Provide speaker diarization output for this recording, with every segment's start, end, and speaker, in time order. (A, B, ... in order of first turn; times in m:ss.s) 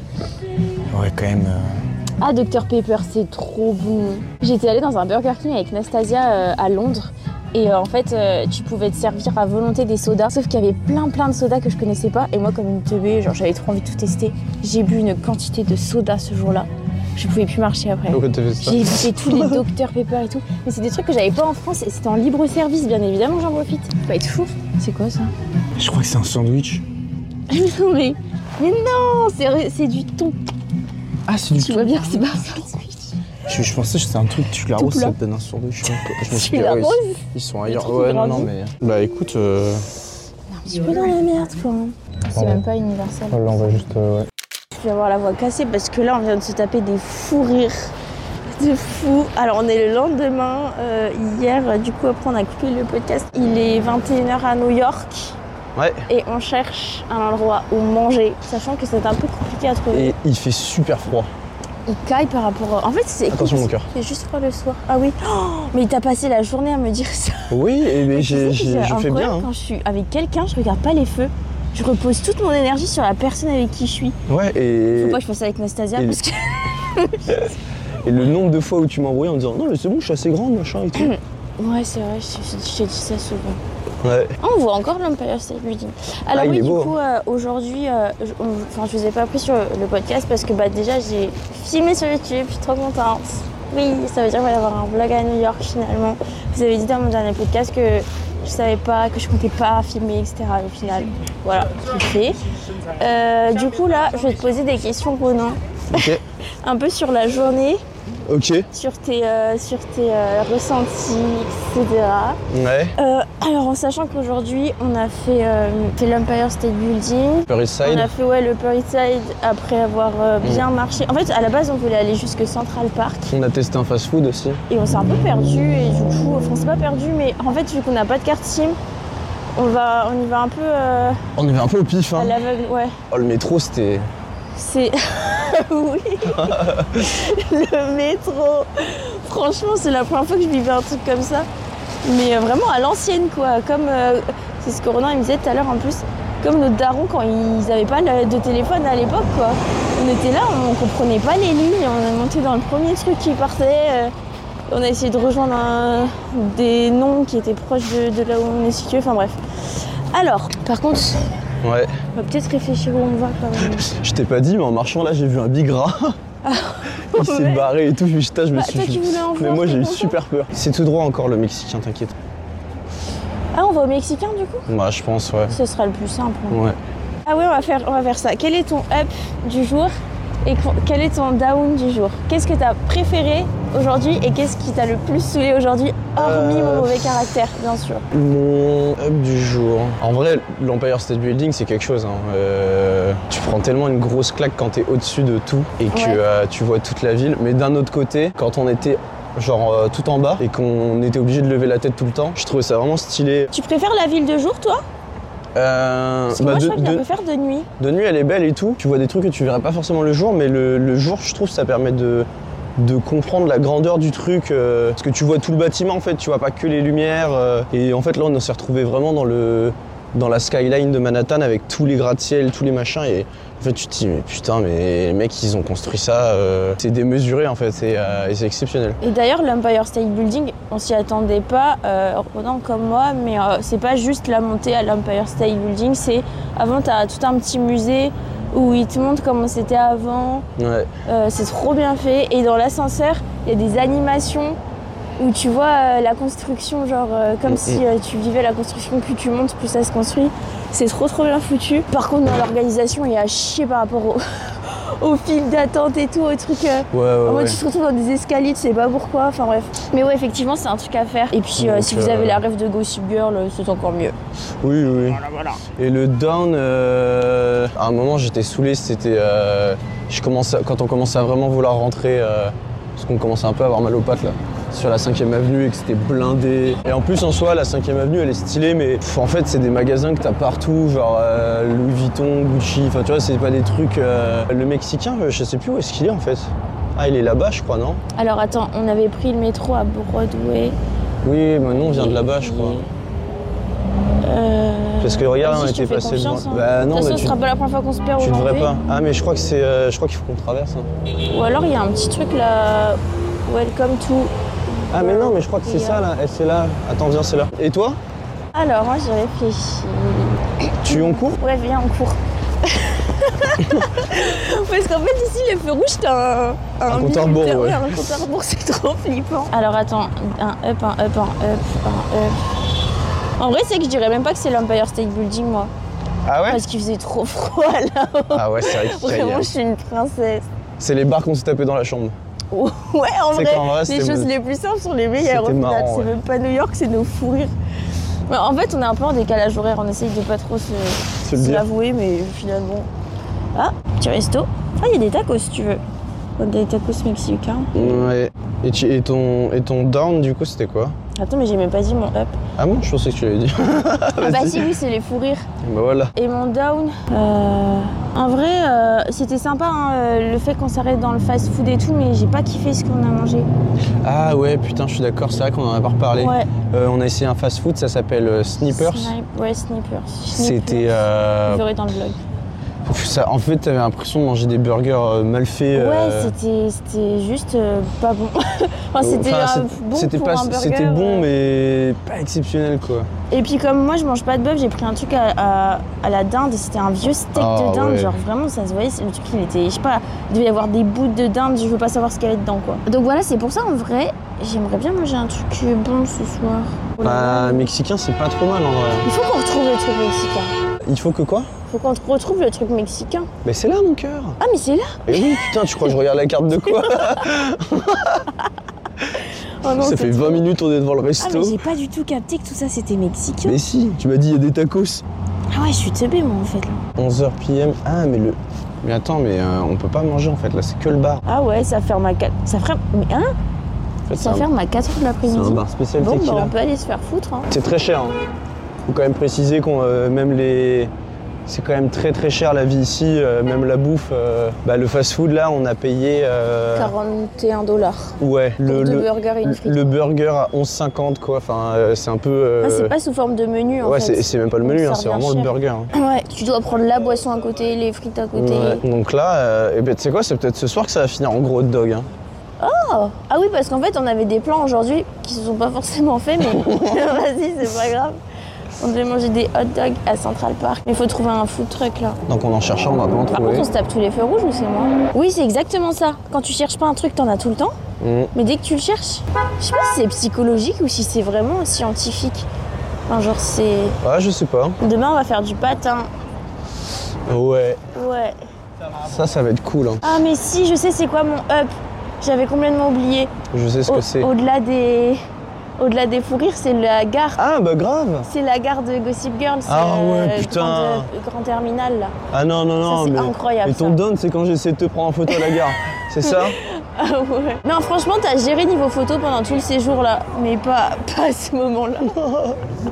0:00.9-0:01.8 A
0:02.2-0:25.3 B
0:18.1-0:19.6 A
0:25.8-0:26.8 A
0:27.5-0:30.4 B
0:31.3-0:32.3 A
0:31.6-0:33.1 B
0:33.5-0:39.8 A
0:34.8-0:35.1 B
0:36.3-0:38.5 B
0:40.5-0:43.8 B
0:42.3-0:42.6 A
0:43.3-0:44.3 A
0:44.7-0:47.9 B
0:48.5-0:55.4 B
0:55.8-0:56.0 A
0:56.1-1:00.1 B
0:59.9-1:01.3 A
1:01.8-1:14.2 B
1:03.3-1:03.9 A
1:07.5-1:09.5 A
1:14.3-1:15.2 A
1:15.0-1:17.4 B
1:18.0-1:21.1 A
1:21.0-1:23.6 B
1:24.0-1:24.4 A
1:24.4-1:42.4 B
1:26.3-1:27.0 A
1:43.0-1:47.8 B
1:45.9-1:46.2 A
1:48.2-1:48.7 A
1:48.7-1:52.4 B
1:52.5-1:52.9 A
1:53.0-2:03.3 B
1:57.5-1:58.1 A
2:03.3-2:04.6 A
2:04.7-2:08.8 B
2:09.5-2:11.2 B
2:11.4-2:12.4 A
2:12.2-2:12.9 B
2:13.1-2:14.1 A
2:14.5-2:21.5 B
2:16.3-2:17.1 A
2:22.0-2:34.1 B
2:34.7-2:41.2 B
2:41.6-2:41.9 A
2:42.1-2:43.9 B
2:43.8-2:46.2 A
2:46.4-2:47.7 B
2:47.1-2:52.2 A
2:48.5-2:50.2 B
2:53.5-2:54.7 B
2:54.7-2:55.6 A
2:55.5-2:56.6 B
2:56.5-2:56.8 A
2:57.2-3:08.0 B
3:06.2-3:07.2 A
3:08.1-3:23.5 A
3:15.9-3:16.2 B
3:23.5-3:24.8 B
3:25.5-3:27.0 A
3:26.3-3:27.7 B
3:27.8-3:49.0 A
3:49.0-4:00.4 B
4:00.6-4:00.9 A
4:01.0-4:04.6 B
4:05.2-4:24.2 B
4:07.5-4:07.8 A
4:16.9-4:17.6 A
4:21.6-4:22.4 A
4:24.6-4:48.0 A
4:25.3-4:25.6 B
4:48.2-4:50.8 B
4:51.2-4:52.8 A
4:51.9-4:52.9 B
4:54.2-4:58.7 B
4:55.0-4:57.4 A
4:58.2-5:00.9 A
5:01.3-5:06.0 B
5:04.9-5:08.0 A
5:08.5-5:22.4 B
5:10.8-5:11.4 A
5:16.9-5:18.0 A
5:23.4-5:25.7 B
5:26.2-5:26.6 A
5:26.5-5:30.4 B
5:28.3-5:29.5 A
5:30.8-5:32.1 A
5:32.5-5:37.5 B
5:33.3-5:34.3 A
5:35.2-5:36.1 A
5:38.3-5:42.9 B
5:41.2-5:41.7 A
5:43.5-5:45.8 B
5:46.4-5:48.1 B
5:47.7-5:50.9 A
5:51.1-5:52.4 B
5:52.6-5:54.7 A
5:54.2-5:55.5 B
5:55.6-5:56.1 A
5:56.1-6:03.5 B
6:04.0-6:09.1 A
6:06.2-6:06.5 B
6:08.7-6:12.2 B
6:10.3-6:11.6 A
6:12.8-6:16.3 A
6:15.7-6:21.3 B
6:19.0-6:23.1 A
6:23.3-6:37.7 B
6:27.3-6:28.2 A
6:37.0-6:39.1 A
6:39.0-6:40.5 B
6:40.8-6:41.5 A
6:41.7-6:43.3 B
6:43.4-6:44.4 A
6:44.4-6:46.0 B
6:45.0-6:48.3 A
6:46.7-6:47.2 B
6:49.2-6:50.5 B
6:49.8-6:51.6 A
6:51.2-6:53.6 B
6:53.4-6:55.0 A
6:55.5-6:56.8 B
6:57.0-7:01.2 A
7:01.2-7:03.3 B
7:04.1-7:04.5 A
7:04.1-7:07.5 B
7:05.2-7:06.5 A
7:07.5-7:08.2 A
7:08.8-7:10.9 A
7:11.5-7:16.9 A
7:16.7-7:19.8 B
7:18.2-7:22.9 A
7:22.6-7:28.8 B
7:23.8-7:25.9 A
7:28.3-7:32.1 A
7:32.6-7:38.2 B
7:36.4-7:37.1 A
7:38.8-7:42.2 B
7:42.3-7:43.7 A
7:43.3-7:47.8 B
7:48.0-7:48.3 A
7:48.3-7:52.5 B
7:53.1-7:54.0 B
7:54.0-7:54.8 A
7:54.8-7:56.1 B
7:57.3-7:57.8 A
7:57.9-7:58.4 B
7:59.0-8:00.0 A
8:00.0-8:03.3 B
8:03.5-8:04.3 A
8:03.9-8:05.2 B
8:05.8-8:07.4 B
8:07.4-8:08.3 A
8:08.2-8:12.1 B
8:09.6-8:11.1 A
8:12.3-8:16.6 A
8:12.8-8:14.0 B
8:15.3-8:15.6 B
8:16.2-8:22.2 B
8:22.0-8:22.6 A